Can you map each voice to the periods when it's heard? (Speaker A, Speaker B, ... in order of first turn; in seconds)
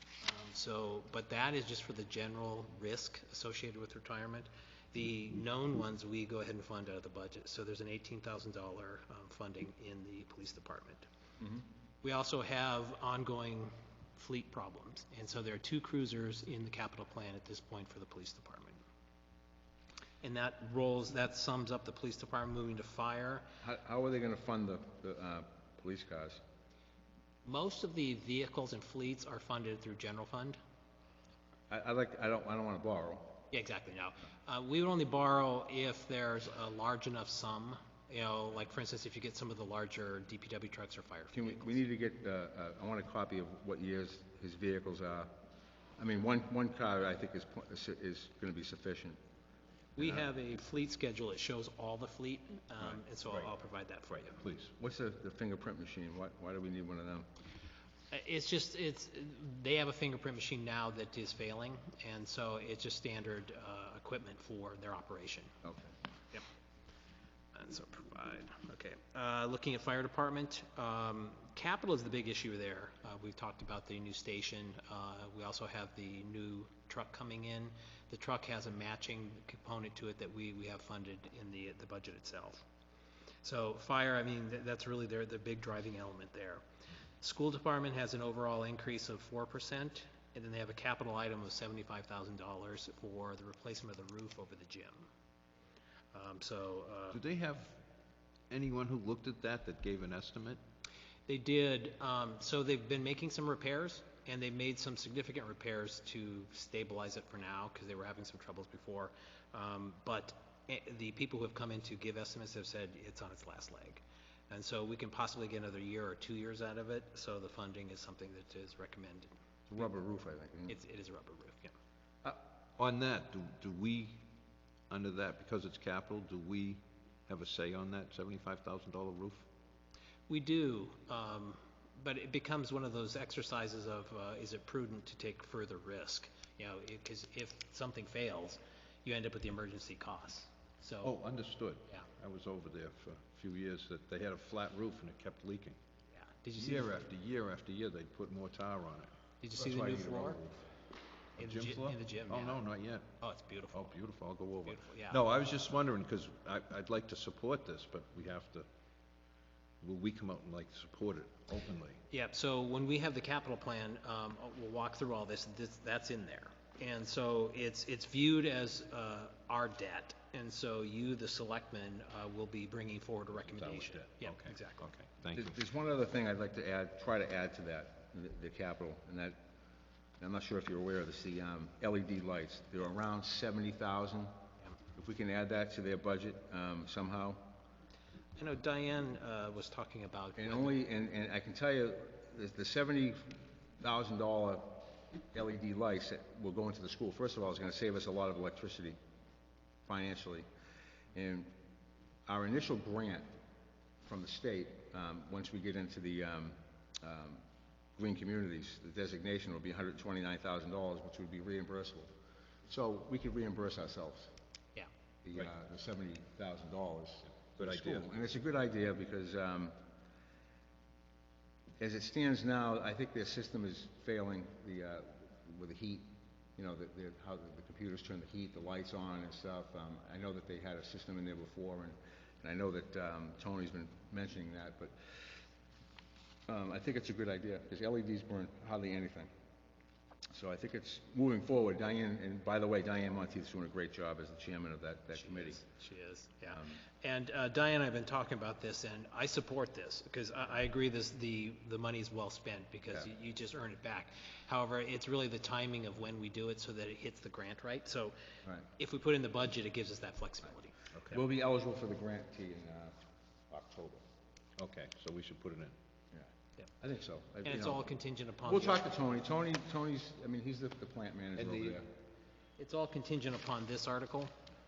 Speaker A: 0.2-11.1, 12.0-18.8, 20.2-23.5, 27.4-30.6, 33.5-41.8, 50.0-54.4, 58.1-65.5, 67.5-82.6, 83.4-86.6, 87.2-95.1, 96.1-97.2, 101.3-119.3, 120.7-121.7, 130.3-141.1, 146.2-146.9, 149.4-150.4, 151.4-152.6, 153.2-153.9, 154.7-155.2, 162.1-174.9, 188.4-190.8, 245.2-258.1, 258.8-260.8, 267.4-268.8, 272.6-274.3
Speaker B: 23.6-26.4, 31.7-33.5, 41.3-45.3, 46.0-49.2, 50.0-50.3, 52.8-53.5, 54.8-57.3, 65.6-65.9, 119.7-120.8, 149.6-150.7, 175.3-179.4, 180.2-184.4, 184.9-187.6, 190.4-199.0, 199.9-200.5, 201.1-201.5, 202.3-203.3, 204.0-207.4, 208.0-212.1, 212.7-214.3, 215.2-219.8, 221.8-235.2, 236.5-239.3, 240.3-245.6, 246.5-246.8, 261.1-263.0, 263.5-264.0, 266.8-267.9, 268.4-271.9
Speaker C: 54.4-54.8, 97.1-97.8, 98.5-100.6, 122.8-124.2, 124.9-129.5, 141.0-145.8, 146.6-149.1, 151.4-153.1, 153.7-158.7, 159.8-162.0, 173.3-175.6, 217.6-218.1, 260.9-261.2, 264.6-265.7, 271.4-271.8